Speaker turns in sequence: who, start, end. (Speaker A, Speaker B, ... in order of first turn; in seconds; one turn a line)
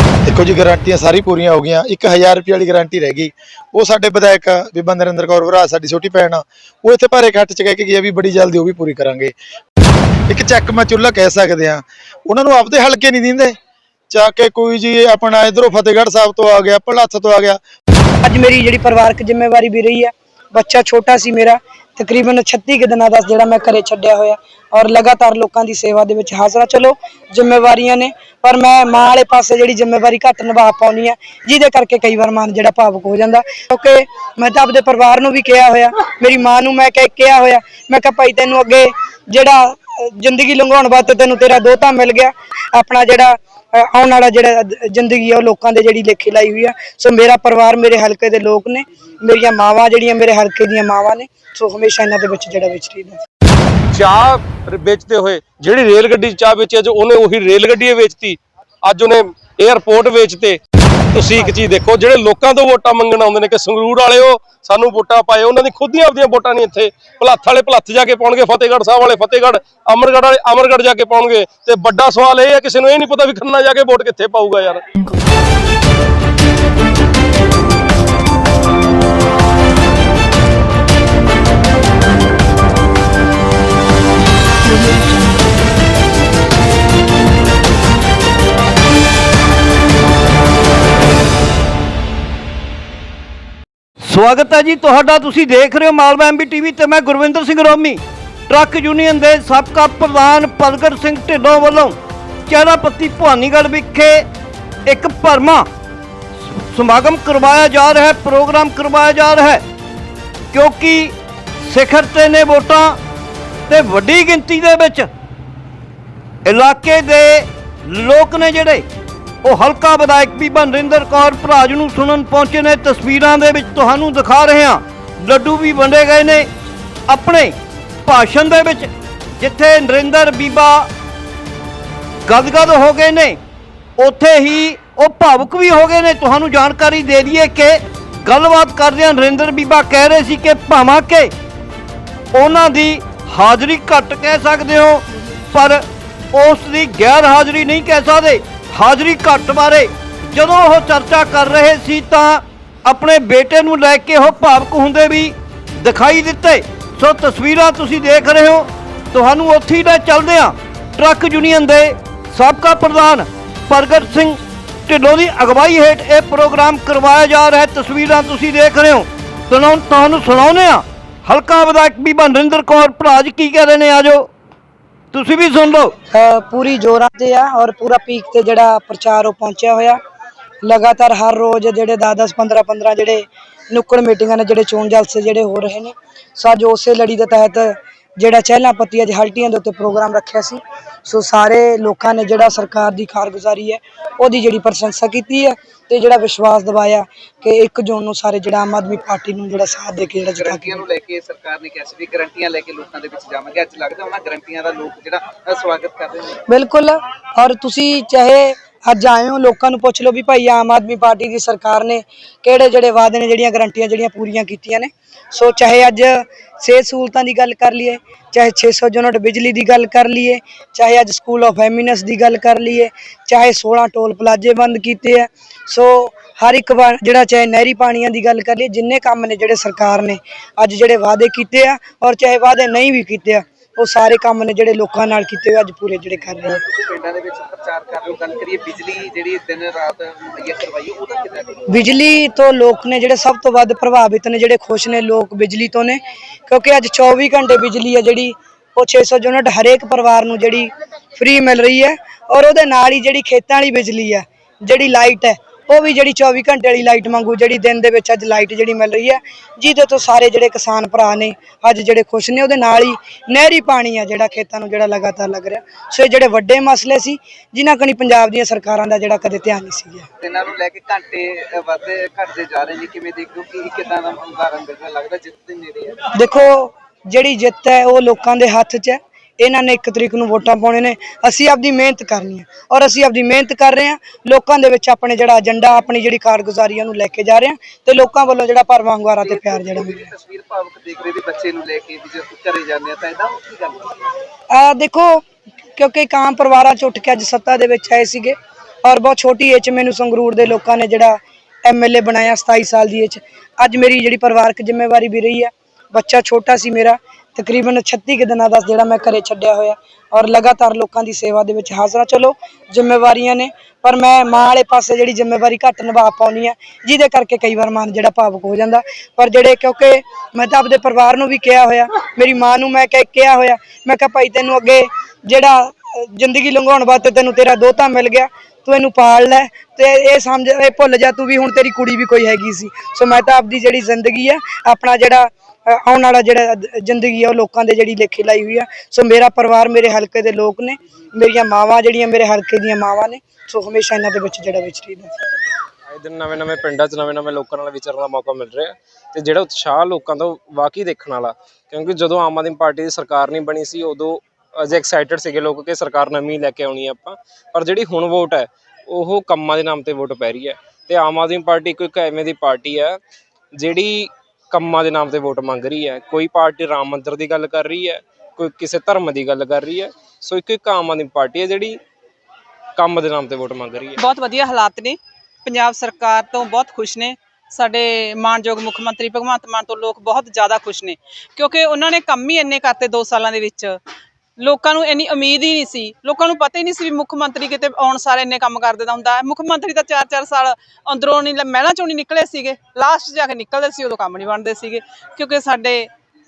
Speaker A: 0.2-9.3
Speaker A: 10.3-13.6
Speaker A: 14.1-17.6
Speaker B: 18.2-53.2
Speaker C: 53.9-60.6
Speaker C: 61.1-74.8
Speaker D: 94.0-102.0
Speaker D: 102.5-104.2
Speaker D: 104.9-105.7
Speaker D: 106.4-109.6
Speaker D: 110.5-113.0
Speaker D: 113.7-115.1
Speaker D: 116.4-118.8
Speaker D: 119.4-126.5
Speaker D: 127.1-127.5
Speaker D: 128.0-130.9
Speaker D: 132.2-133.4
Speaker D: 134.0-141.3
Speaker D: 142.3-174.3
Speaker D: 175.1-175.9
Speaker B: 176.1-180.0
Speaker B: 180.6-200.8
Speaker E: 200.4-206.3
Speaker B: 206.5-236.6
Speaker E: 236.5-241.8
Speaker B: 241.7-270.1
Speaker E: 270.2-276.0
Speaker B: 276.1-290.1
Speaker E: 289.2-293.9
Speaker B: 294.5-295.2
Speaker B: 295.8-345.1
Speaker F: 345.9-363.0
Speaker F: 363.6-371.8
Speaker F: 372.8-374.0
Speaker G: 374.0-383.8
Speaker G: 384.4-395.9